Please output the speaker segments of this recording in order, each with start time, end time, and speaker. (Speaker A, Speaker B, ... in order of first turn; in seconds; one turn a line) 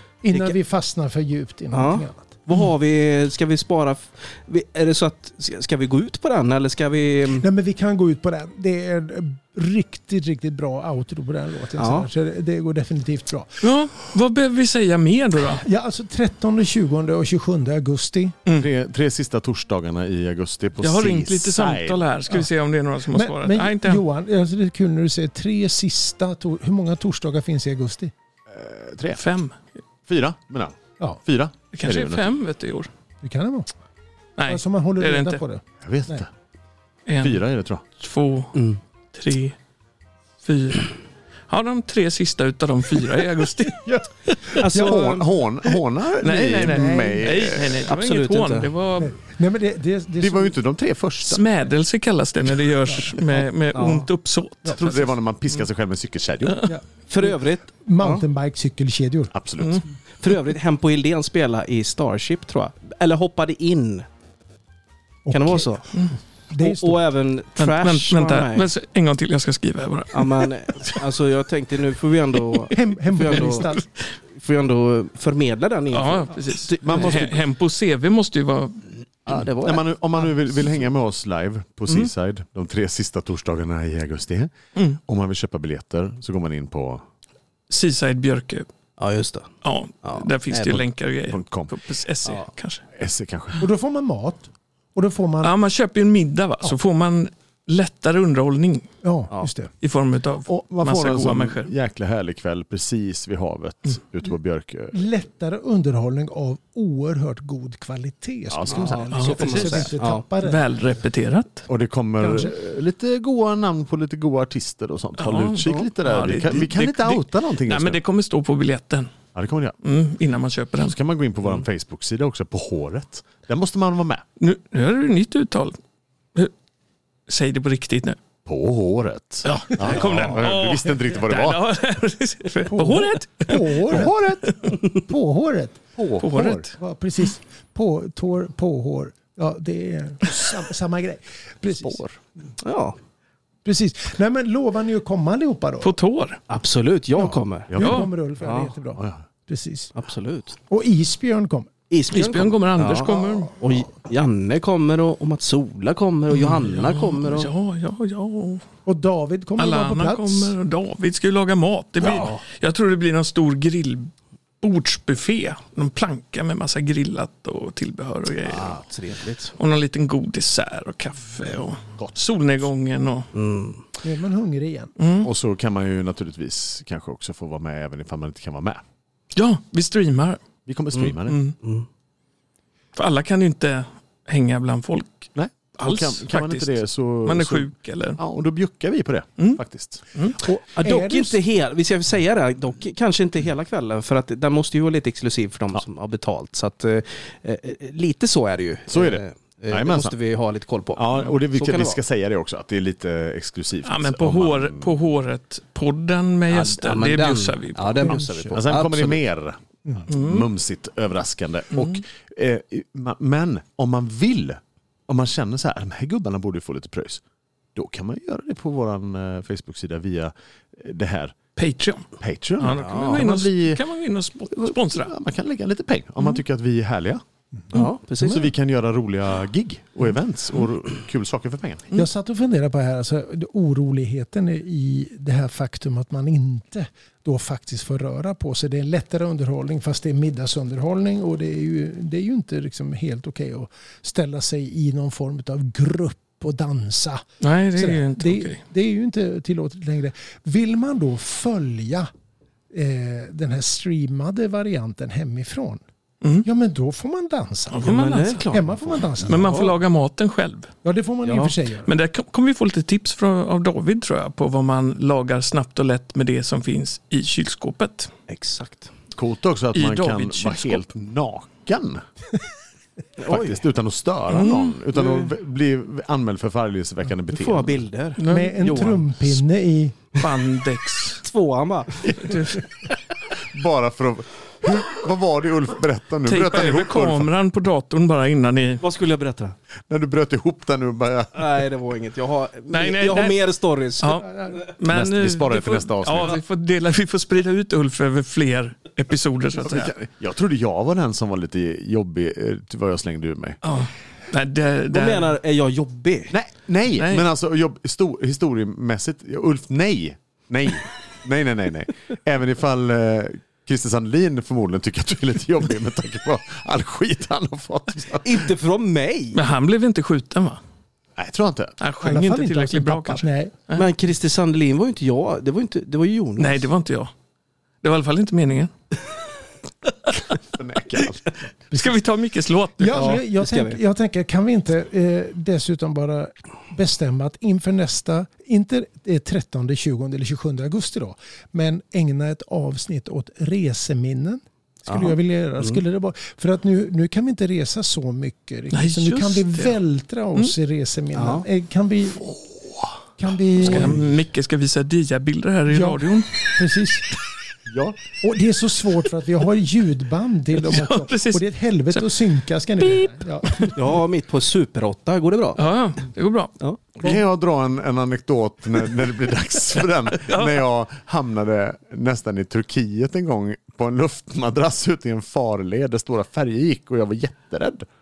Speaker A: 0.2-2.4
Speaker B: 1.7-7.5
Speaker A: 7.4-13.7
Speaker B: 11.8-12.1
Speaker C: 13.6-15.6
Speaker A: 15.5-18.4
Speaker D: 18.6-22.0
Speaker C: 20.8-24.0
Speaker A: 23.1-28.1
Speaker D: 28.5-29.2
Speaker C: 29.2-29.6
Speaker D: 30.1-32.3
Speaker C: 31.7-32.9
Speaker A: 33.2-33.7
Speaker C: 34.4-35.4
Speaker A: 34.5-36.2
Speaker D: 35.8-36.3
Speaker C: 37.0-37.4
Speaker D: 37.2-37.8
Speaker C: 38.0-39.5
Speaker B: 38.5-38.8
Speaker C: 40.4-41.0
Speaker C: 41.5-44.5
Speaker B: 44.6-45.3
Speaker A: 44.6-45.2
Speaker D: 44.7-47.9
Speaker C: 46.2-49.2
Speaker A: 46.5-47.3
Speaker B: 47.8-48.7
Speaker A: 49.0-50.5
Speaker D: 50.2-51.5
Speaker C: 51.3-55.1
Speaker B: 53.7-54.1
Speaker D: 54.8-56.7
Speaker C: 56.5-56.7
Speaker A: 56.7-59.3
Speaker B: 57.1-58.2
Speaker D: 59.3-59.8
Speaker B: 60.2-64.1
Speaker A: 65.3-67.0
Speaker B: 65.3-65.9
Speaker B: 66.6-68.7
Speaker C: 67.6-71.0
Speaker B: 70.1-73.7
Speaker A: 72.7-73.8
Speaker C: 73.2-73.8
Speaker B: 74.4-77.3
Speaker C: 75.9-78.9
Speaker D: 76.8-77.4
Speaker B: 79.3-80.5
Speaker D: 79.3-84.5
Speaker D: 85.0-87.0
Speaker C: 87.7-88.7
Speaker B: 89.0-90.8
Speaker C: 89.6-92.8
Speaker D: 91.3-91.8
Speaker D: 93.0-93.7
Speaker A: 93.6-95.5
Speaker C: 95.4-98.9
Speaker A: 99.0-99.7
Speaker C: 99.8-101.7
Speaker D: 100.5-105.0
Speaker A: 104.9-110.6
Speaker D: 108.5-109.4
Speaker B: 108.7-110.2
Speaker C: 109.1-111.7
Speaker D: 111.7-118.0
Speaker A: 112.2-112.5
Speaker C: 115.2-119.1
Speaker D: 119.3-119.8
Speaker C: 119.8-121.0
Speaker D: 120.8-124.2
Speaker C: 124.4-125.8
Speaker C: 127.3-128.2
Speaker D: 128.4-131.6
Speaker C: 129.4-134.7
Speaker A: 132.7-134.1
Speaker D: 133.9-134.6
Speaker A: 134.9-142.0
Speaker D: 136.0-136.6
Speaker C: 136.2-136.7
Speaker D: 141.8-142.2
Speaker B: 142.6-143.0
Speaker A: 143.6-145.9
Speaker C: 145.8-146.4
Speaker B: 146.5-147.8
Speaker A: 147.2-149.9
Speaker D: 147.7-148.0
Speaker C: 147.8-148.1
Speaker B: 148.4-148.8
Speaker D: 149.0-149.2
Speaker B: 149.9-150.6
Speaker A: 150.7-151.7
Speaker B: 151.9-157.5
Speaker C: 152.1-153.5
Speaker C: 156.3-158.6
Speaker A: 158.9-160.5
Speaker C: 159.6-168.8
Speaker B: 162.0-162.4
Speaker B: 168.4-169.6
Speaker C: 169.6-173.3
Speaker B: 173.3-173.8
Speaker A: 174.0-174.9
Speaker C: 175.0-175.3
Speaker D: 175.2-178.8
Speaker C: 179.3-180.4
Speaker D: 180.6-181.4
Speaker B: 180.9-181.9
Speaker C: 181.3-181.6
Speaker C: 182.9-188.2
Speaker D: 185.3-190.0
Speaker A: 190.4-191.4
Speaker B: 190.7-202.0
Speaker D: 198.9-200.2
Speaker D: 200.9-205.0
Speaker C: 203.8-208.2
Speaker B: 206.5-209.2
Speaker D: 208.1-217.2
Speaker C: 210.1-210.5
Speaker C: 211.7-212.0
Speaker D: 217.7-221.4
Speaker C: 221.6-222.1
Speaker D: 222.2-223.8
Speaker C: 222.6-225.1
Speaker B: 222.7-223.2
Speaker D: 224.5-227.2
Speaker A: 227.6-228.5
Speaker B: 227.7-228.4
Speaker D: 227.7-231.9
Speaker A: 231.9-252.1
Speaker C: 247.4-248.6
Speaker A: 252.7-255.8
Speaker C: 256.2-256.5
Speaker A: 256.4-257.9
Speaker C: 257.7-258.5
Speaker B: 257.8-259.7
Speaker A: 258.5-259.7
Speaker C: 259.2-260.7
Speaker A: 260.8-261.9
Speaker B: 261.2-261.6
Speaker C: 261.8-268.1
Speaker B: 268.3-268.9
Speaker D: 269.1-272.0
Speaker C: 269.7-270.8
Speaker B: 273.2-273.6
Speaker D: 273.3-277.9
Speaker C: 274.3-274.8
Speaker B: 275.0-275.2
Speaker B: 277.3-279.1
Speaker C: 278.2-278.6
Speaker A: 278.3-280.0
Speaker C: 280.2-281.2
Speaker B: 281.2-282.4
Speaker C: 282.0-282.9
Speaker D: 283.5-287.3
Speaker C: 286.3-288.8
Speaker B: 288.8-289.6
Speaker D: 289.9-291.4
Speaker B: 291.3-294.6
Speaker C: 292.7-293.4
Speaker C: 294.0-299.9
Speaker D: 294.9-296.4
Speaker D: 299.6-303.6
Speaker C: 303.6-305.4
Speaker B: 304.9-306.3
Speaker D: 306.3-318.5
Speaker C: 307.0-307.3
Speaker B: 318.2-319.4
Speaker C: 319.3-320.6
Speaker D: 321.2-321.8
Speaker C: 321.8-323.9
Speaker A: 322.0-323.6
Speaker B: 323.7-326.7
Speaker C: 326.4-327.1
Speaker C: 327.8-328.7
Speaker D: 330.3-331.3
Speaker A: 331.7-332.0
Speaker C: 331.7-333.2
Speaker A: 332.8-352.4
Speaker B: 332.9-333.8
Speaker B: 344.9-345.8
Speaker C: 348.7-349.8
Speaker B: 351.1-351.4
Speaker A: 353.2-354.1
Speaker C: 353.6-356.5
Speaker A: 355.7-357.1
Speaker D: 357.7-358.0
Speaker A: 358.2-363.9
Speaker C: 360.5-362.2
Speaker C: 362.8-363.7
Speaker B: 363.8-365.6
Speaker C: 365.6-367.2
Speaker D: 367.0-377.9
Speaker C: 370.2-370.6